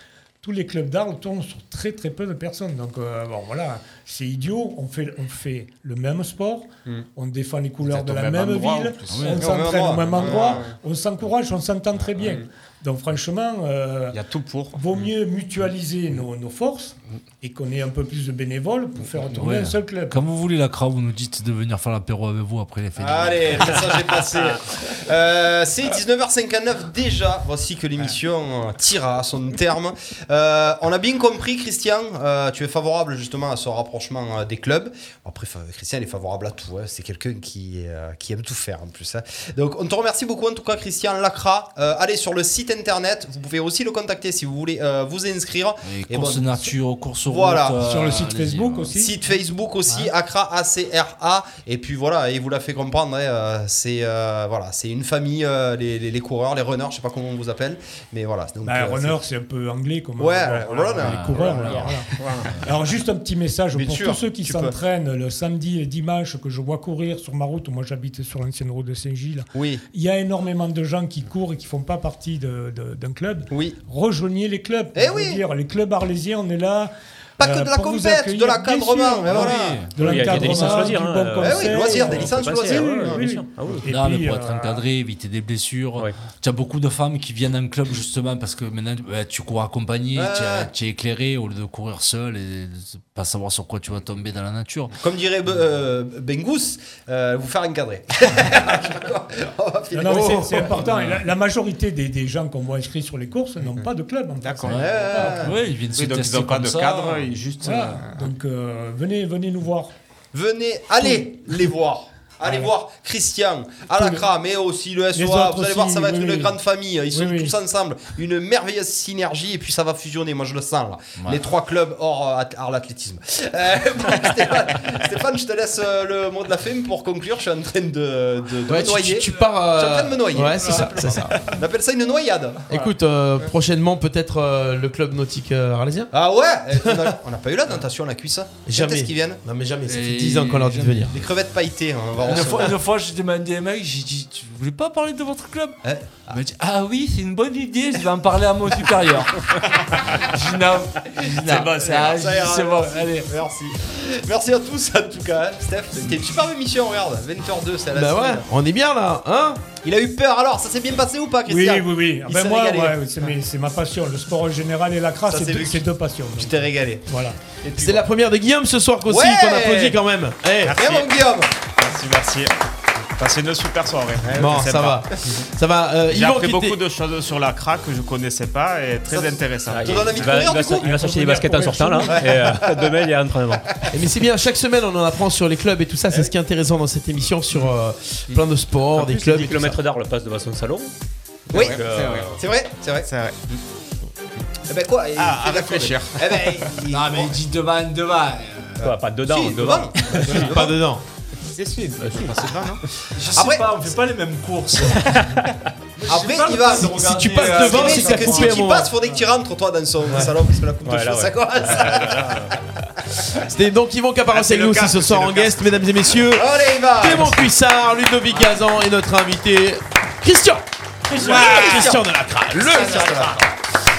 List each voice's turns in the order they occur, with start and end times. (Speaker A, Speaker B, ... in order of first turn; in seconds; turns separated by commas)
Speaker A: 0.4-20.2, Speaker B: 7.8-10.7, Speaker C: 9.1-9.4, Speaker D: 9.4-10.7, Speaker B: 14.1-15.1, Speaker C: 19.3-24.1, Speaker D: 23.0-46.7, Speaker C: 45.8-48.9, Speaker D: 47.3-47.8, Speaker A: 47.8-49.1, Speaker D: 48.9-59.2, Speaker A: 58.6-84.8, Speaker D: 60.2-61.9, Speaker C: 61.0-62.6, Speaker E: 61.7-62.5, Speaker D: 63.7-64.7, Speaker D: 69.5-69.8, Speaker D: 73.5-73.8, Speaker D: 74.9-75.4, Speaker D: 77.4-79.9, Speaker C: 79.3-81.0, Speaker E: 80.0-83.9, Speaker D: 81.4-83.2, Speaker C: 83.8-95.0, Speaker D: 90.2-90.7, Speaker D: 95.0-100.9, Speaker A: 99.9-105.4, Speaker F: 100.1-100.6, Speaker C: 100.9-101.2, Speaker B: 104.4-105.1, Speaker C: 104.7-107.3, Speaker D: 104.7-105.5, Speaker B: 105.9-108.3, Speaker A: 107.6-109.9, Speaker D: 110.3-132.8, Speaker A: 113.9-114.2, Speaker A: 115.1-116.5, Speaker A: 117.1-117.6, Speaker F: 128.6-131.4, Speaker F: 132.7-136.1, Speaker D: 136.1-139.4, Speaker F: 136.7-137.1, Speaker F: 138.7-141.2, Speaker C: 139.9-141.2, Speaker D: 141.1-142.8, Speaker C: 142.2-153.3, Speaker D: 145.8-146.4, Speaker A: 151.3-152.1, Speaker D: 151.5-158.4, Speaker F: 157.9-159.6, Speaker D: 159.8-163.0, Speaker A: 161.5-167.4, Speaker D: 165.3-167.1, Speaker B: 167.6-168.0, Speaker F: 167.7-171.1, Speaker D: 169.1-170.0, Speaker B: 170.7-171.0, Speaker D: 170.7-171.5, Speaker B: 171.7-172.5, Speaker B: 173.2-175.1, Speaker D: 174.2-174.7, Speaker F: 174.3-176.8, Speaker B: 176.1-180.5, Speaker D: 179.1-180.9, Speaker E: 179.7-183.7, Speaker A: 180.8-182.2, Speaker D: 182.1-182.9, Speaker F: 183.9-189.8, Speaker E: 188.9-190.9, Speaker B: 191.5-192.4, Speaker E: 191.5-192.4, Speaker D: 191.5-191.8, Speaker D: 192.4-193.1, Speaker B: 193.0-193.6, Speaker D: 194.7-197.4, Speaker B: 195.2-196.7, Speaker C: 196.9-198.9, Speaker D: 198.8-200.8, Speaker E: 198.8-200.5, Speaker B: 200.2-200.5, Speaker F: 200.2-201.0, Speaker B: 201.6-202.8, Speaker E: 202.0-202.7, Speaker C: 203.1-208.6, Speaker D: 203.3-203.7, Speaker E: 205.0-205.6, Speaker D: 206.0-212.5, Speaker F: 206.7-208.9, Speaker E: 210.8-212.5, Speaker F: 213.3-223.5, Speaker B: 214.3-215.8, Speaker D: 216.2-217.4, Speaker D: 221.2-222.1, Speaker B: 221.3-221.7, Speaker D: 222.6-223.5